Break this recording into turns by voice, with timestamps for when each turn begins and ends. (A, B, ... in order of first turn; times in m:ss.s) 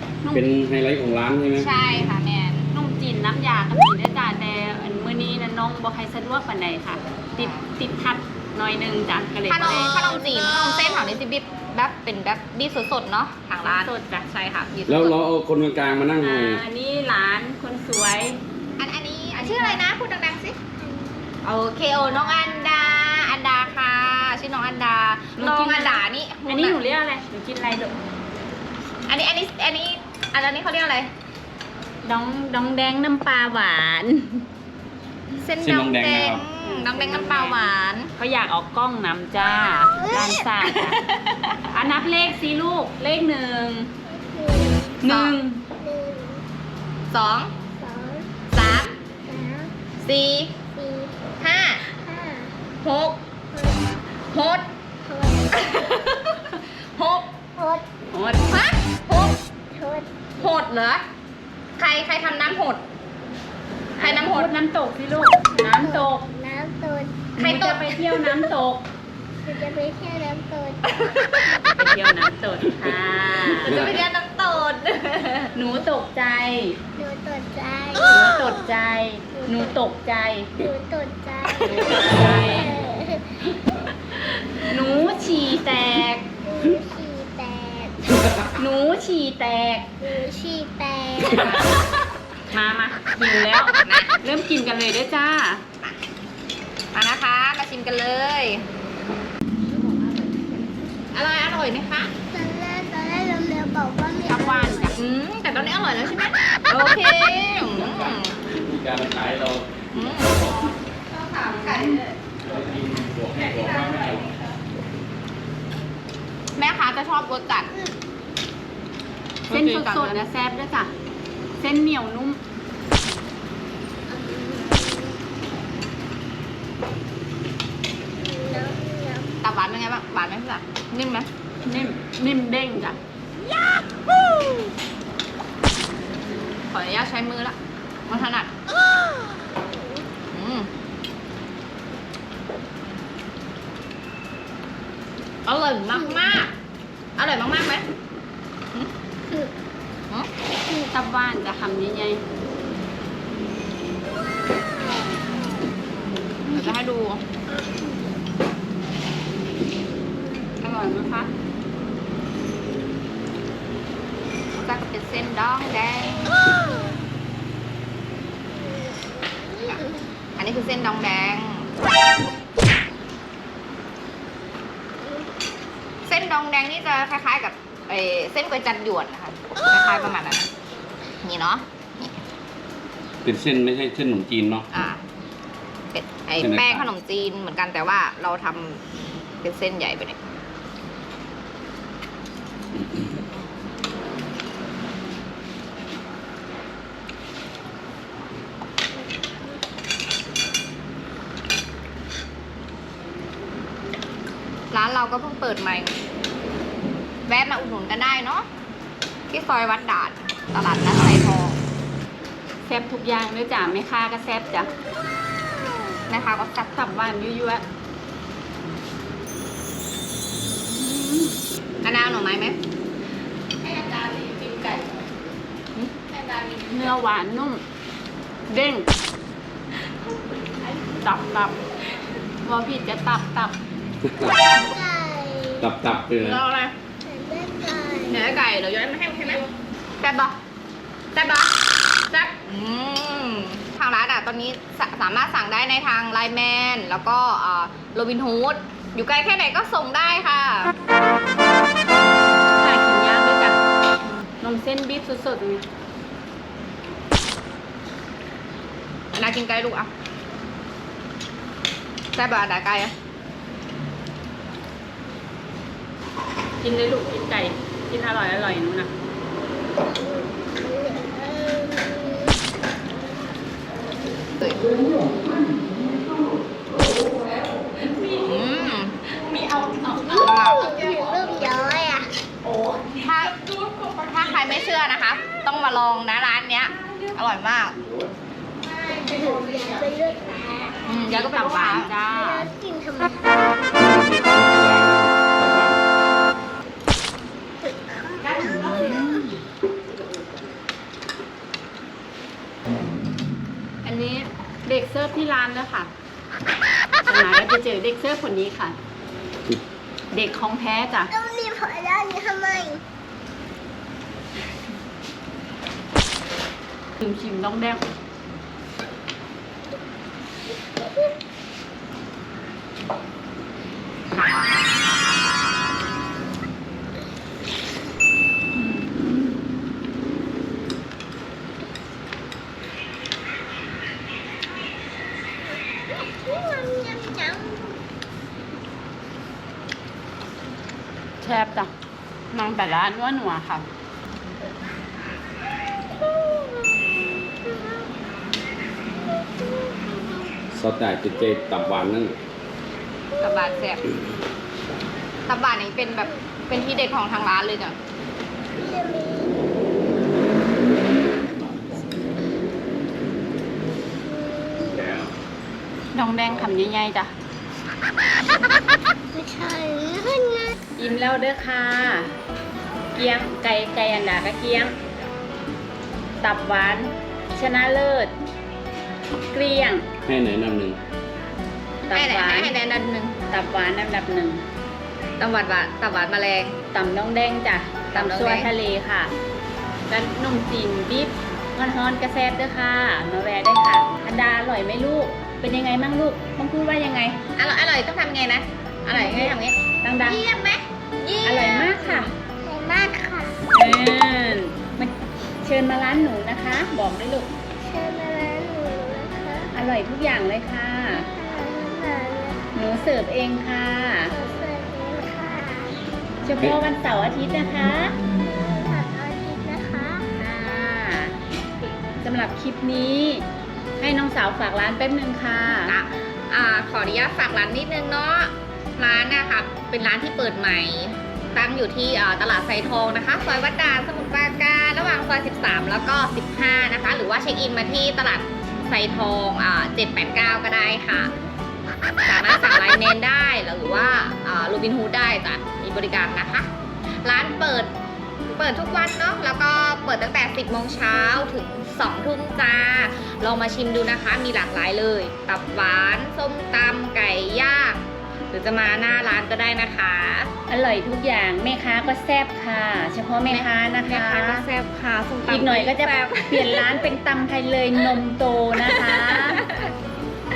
0:00.3-0:01.7 A
0:01.5-0:02.7 B
0:02.7-0:10.1 C
0:07.4-0:07.6 B
0:09.5-0:15.2 B
0:13.6-0:14.2 C
0:14.9-0:16.6 A
0:16.2-0:18.4 C
0:18.8-0:20.6 B
0:19.3-0:19.8 C
0:21.4-0:26.8 B
0:25.4-0:28.0 C
0:29.1-0:31.1 B
0:32.0-0:34.4 C
0:35.4-0:38.1 B
0:35.6-0:36.4 A
0:36.6-0:41.0 C
0:41.6-0:43.9 C
0:44.1-0:45.0 D
0:45.0-0:45.6 C
0:45.0-0:45.4 B
0:45.8-0:46.4 D
0:47.1-0:47.5 B
0:47.7-0:48.4 D
0:48.5-0:48.9 B
0:49.2-0:49.7 D
0:50.0-0:50.6 B
0:50.6-0:52.6 D
0:51.4-0:51.8 B
0:52.8-0:53.2 B
0:53.5-0:54.0 D
0:54.3-0:54.7 B
0:55.0-0:55.8 D
0:55.5-0:57.3 B
0:57.4-0:57.8 D
0:58.1-0:58.5 C
0:58.4-0:59.4 B
0:59.7-1:00.5 D
1:00.4-1:01.0 B
1:01.8-1:02.8 B
1:04.0-1:04.5 B
1:04.0-1:06.2 C
1:05.5-1:07.4 D
1:07.4-1:08.8 C
1:07.4-1:08.2 B
1:09.4-1:11.2 D
1:11.0-1:11.5 B
1:11.5-1:13.8 C
1:13.4-1:15.5 B
1:15.5-1:16.8 C
1:17.0-1:18.3 D
1:18.1-1:20.5 C
1:19.4-1:19.8 D
1:20.6-1:23.4 D
1:21.6-1:22.8 C
1:24.6-1:26.2 C
1:26.4-1:28.5 D
1:28.5-1:29.9 C
1:30.0-1:31.6 D
1:32.5-1:35.6 C
1:33.8-1:34.1 B
1:36.9-1:38.6 B
1:41.1-1:42.1 B
1:42.3-1:44.9 D
1:44.2-1:45.0 C
1:45.0-1:48.4 B
1:47.7-1:50.7 A
1:49.9-1:52.0 B
1:51.4-1:52.1 C
1:52.4-1:54.3 A
1:53.4-1:54.3 B
1:56.6-1:57.7 B
1:59.5-2:00.2 B
1:59.5-2:00.9 C
2:01.6-2:02.4 C
2:04.1-2:05.2 D
2:08.2-2:09.3 D
2:09.4-2:11.3 B
2:11.6-2:13.0 C
2:16.6-2:17.6 B
2:18.1-2:18.5 B
2:20.3-2:20.7 B
2:25.4-2:26.5 B
2:27.2-2:27.9 B
2:30.8-2:32.2 C
2:36.4-2:37.2 B
2:40.6-2:41.3 C
2:44.5-2:46.7 B
2:49.4-2:49.8 D
2:50.4-2:51.7 B
2:56.0-3:00.5 B
3:01.2-3:02.1 B
3:03.2-3:04.7 A
3:04.7-3:05.0 B
3:05.9-3:08.8 B
3:06.4-3:06.9 A
3:09.4-3:10.2 B
3:12.8-3:13.0 A
3:24.7-3:25.9 B
3:27.3-3:28.4 B
3:29.3-3:31.6 B
3:32.6-3:34.7 C
3:36.1-3:36.8 B
3:36.7-3:37.6 C
3:40.5-3:41.4 C
3:41.8-3:42.6 B
3:43.6-3:45.1 B
3:45.7-3:46.8 B
3:46.7-3:47.6 C
3:48.5-3:48.9 C
3:51.0-3:51.6 C
3:52.4-3:53.6 C
3:54.0-3:54.4 A
3:54.5-3:55.7 D
3:55.6-3:56.4 A
3:56.2-3:56.7 B
3:57.0-3:58.4 D
3:58.1-3:59.5 B
4:00.0-4:00.4 B
4:01.1-4:01.5 B
4:02.1-4:10.7 B
4:12.6-4:13.6 C
4:14.4-4:15.6 C
4:19.1-4:19.9 B
4:22.1-4:22.9 B
4:26.6-4:28.9 C
4:30.6-4:32.3 D
4:34.4-4:34.7 B
4:38.0-4:40.6 B
4:39.8-4:42.1 D
4:43.0-4:43.4 B
4:44.0-4:47.8 B
4:48.8-4:50.8 D
4:50.9-4:51.9 B
4:51.0-4:52.5 C
4:52.0-4:53.8 D
4:53.8-4:55.8 A
4:57.6-4:59.0 D
4:58.3-4:59.4 C
5:03.8-5:05.9 C
5:07.0-5:08.8 C
5:10.1-5:11.1 C
5:11.1-5:12.8 D
5:17.0-5:17.8 C
5:28.7-5:29.1 C
5:36.0-5:37.8 D
5:41.2-5:41.7 C
5:42.3-5:43.6 C
5:50.5-5:52.1 A
5:53.2-5:53.9 B
5:55.3-5:57.8 B
5:58.6-5:59.4 D
6:04.1-6:04.8 D
6:04.6-6:05.1 A
6:05.9-6:07.1 C
6:09.1-6:10.5 D
6:10.8-6:12.1 C
6:12.9-6:14.7 C
6:16.2-6:18.1 C
6:19.3-6:19.9 C
6:20.0-6:20.8 A
6:21.9-6:22.5 C
6:21.9-6:23.2 B
6:23.3-6:24.4 C
6:25.2-6:26.6 B
6:26.7-6:29.1 C
6:27.9-6:28.5 B
6:29.9-6:37.2 C
6:37.4-6:42.1 B
6:38.9-6:40.2 C
6:41.2-6:42.1 C
6:42.4-6:43.5 D
6:43.5-6:47.3 C
6:47.6-6:49.5 D
6:49.5-6:51.1 C
6:51.0-6:52.5 D
6:52.5-6:54.1 C
6:54.1-6:55.8 D
6:56.2-6:58.0 C
6:58.1-7:00.1 D
7:00.1-7:01.2 C
7:02.0-7:03.2 C
7:03.8-7:05.8 C
7:05.6-7:21.1 B
7:22.0-7:26.5 B
7:27.0-7:27.7 B
7:28.4-7:40.3 B
7:40.5-7:44.5 C
7:43.3-7:46.8 B
7:45.3-7:49.4 C
7:48.7-7:49.7 B